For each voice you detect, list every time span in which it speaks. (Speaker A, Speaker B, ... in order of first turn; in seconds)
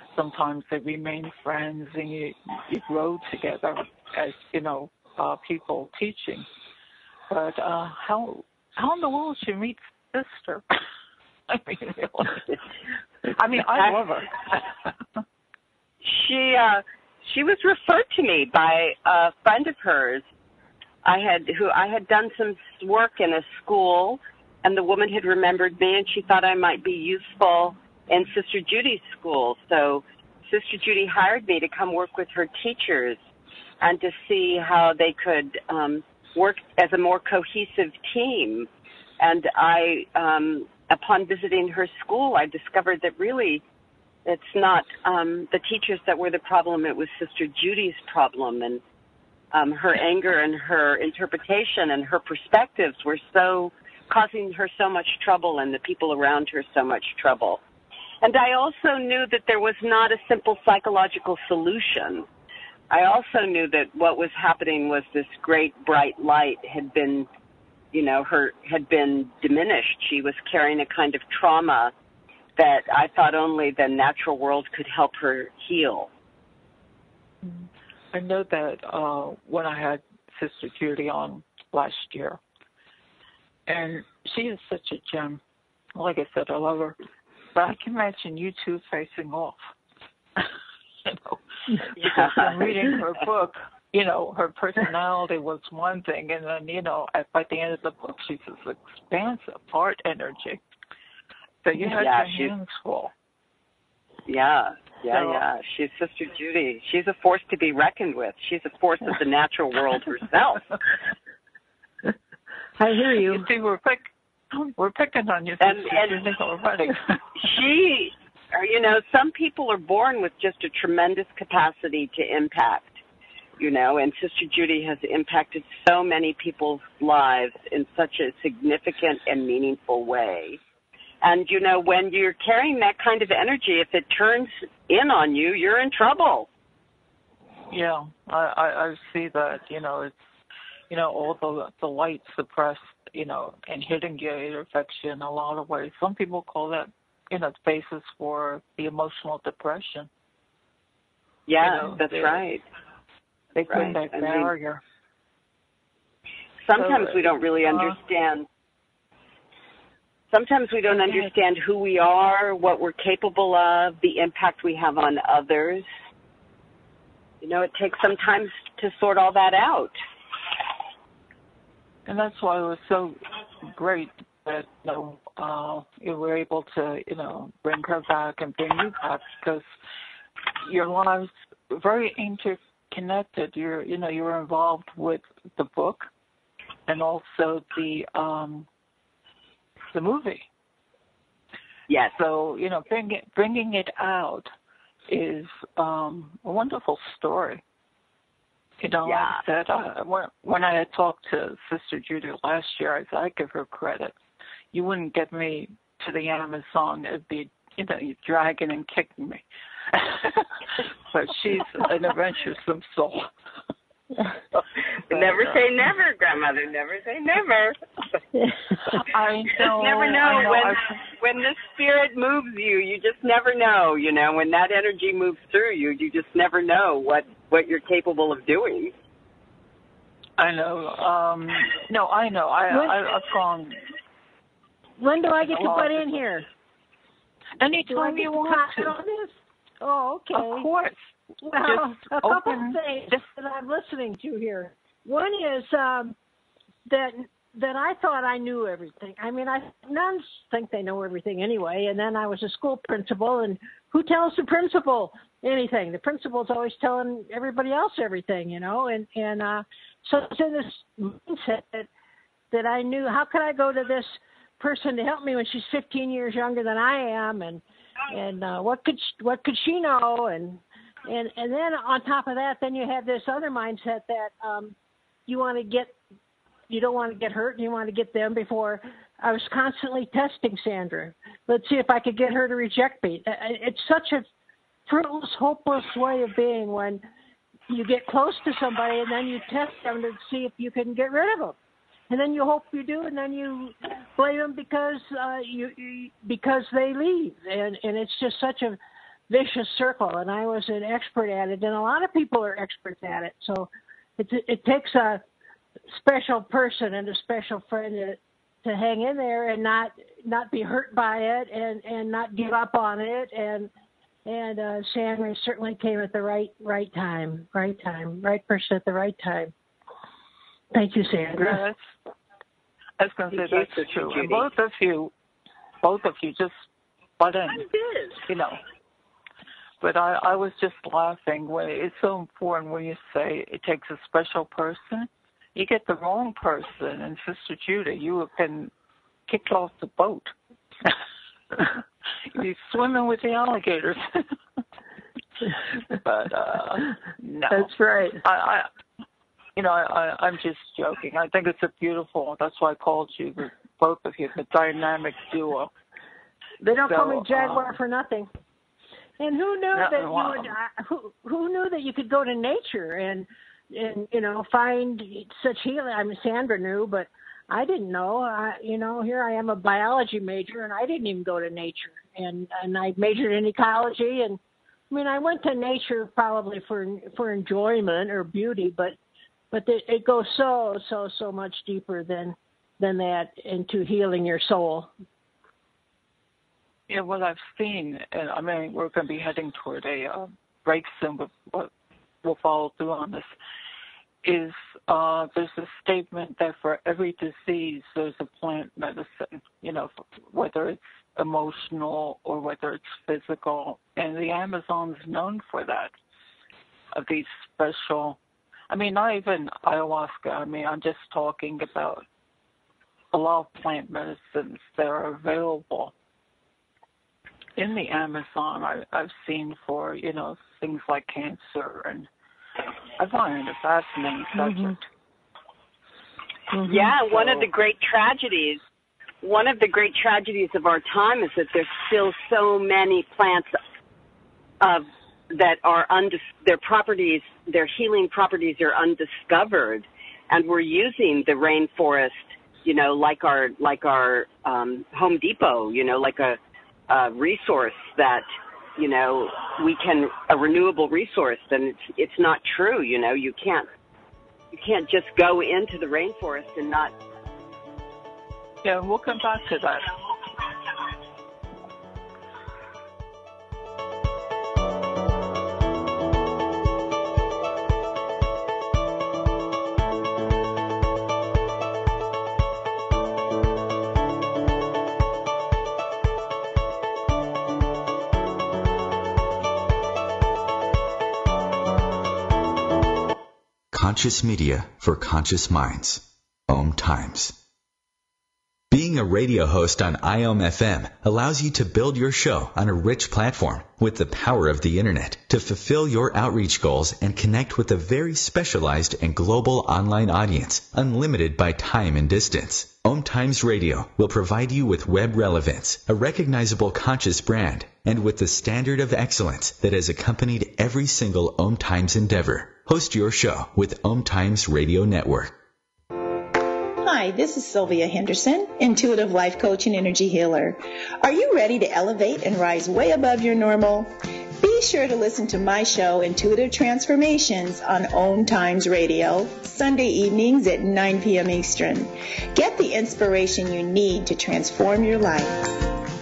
Speaker A: 0.1-6.5, 7.3-10.7, 11.5-12.5, 13.2-15.2, 77.4-82.4, 83.7-85.4, 86.0-87.0, 87.5-89.6, 91.0-100.6, 101.6-103.1, 105.1-105.4, 113.2-117.5, 137.7-140.2, 140.9-150.1, 151.6-152.4, 153.6-154.8, 156.8-158.0, 160.9-161.3, 172.1-173.2, 173.7-179.6, 180.6-186.1, 186.9-188.7, 189.9-190.5, 192.2-194.5, 195.1-197.6, 198.8-204.2, 204.7-213.3, 214.3-214.6, 215.1-215.9, 218.9-220.9, 230.4-233.8, 235.4-236.2, 237.6-238.9, 240.3-243.2, 321.4-321.8, 323.0-325.1, 325.8-326.6, 327.2-327.7, 328.3-328.6, 329.8-338.7, 339.3-340.3, 342.3-344.3, 345.9-348.7, 349.6-355.7, 356.9-357.7, 359.7-360.5, 386.9-391.7, 392.2-393.3, 394.2-405.9, 406.9-408.2, 408.7-412.1, 413.1-415.9, 417.6-422.1, 423.0-424.8, 427.1-427.5, 458.6-459.9
Speaker B: 13.6-14.0, 16.0-20.2, 21.0-33.2, 33.8-38.7, 39.2-43.6, 44.3-48.8, 49.5-57.6, 58.2-62.3, 62.9-67.3, 67.9-71.9, 72.6-76.1, 92.0-93.0, 101.8-102.5, 104.3-110.7, 115.6-116.2, 117.4-123.0, 123.6-130.6, 131.2-136.5, 151.5-152.6, 153.7-154.5, 156.7-158.5, 160.3-165.9, 167.4-170.0, 191.9-192.2, 199.1-199.4, 215.1-217.8, 219.6-228.9, 323.3-324.5, 327.5-328.2, 426.7-428.6, 429.2-433.5, 434.6-446.4, 446.9-448.3, 448.8-453.7, 454.5-456.9
Speaker C: 112.8-113.5, 218.3-219.0, 232.7-233.0, 235.0-236.5, 237.9-240.7, 241.4-246.2, 246.9-261.9, 262.5-274.8, 275.3-275.9, 276.7-284.2, 284.9-287.0, 287.7-291.6, 292.1-298.8, 299.3-305.2, 305.9-313.7, 314.3-319.5, 320.7-321.6, 347.5-348.2, 356.6-358.3, 359.2-374.4, 374.9-378.9, 379.5-384.9, 424.4-424.8, 426.5-426.9
Speaker D: 483.7-487.4, 488.7-515.4
Speaker E: 516.8-535.5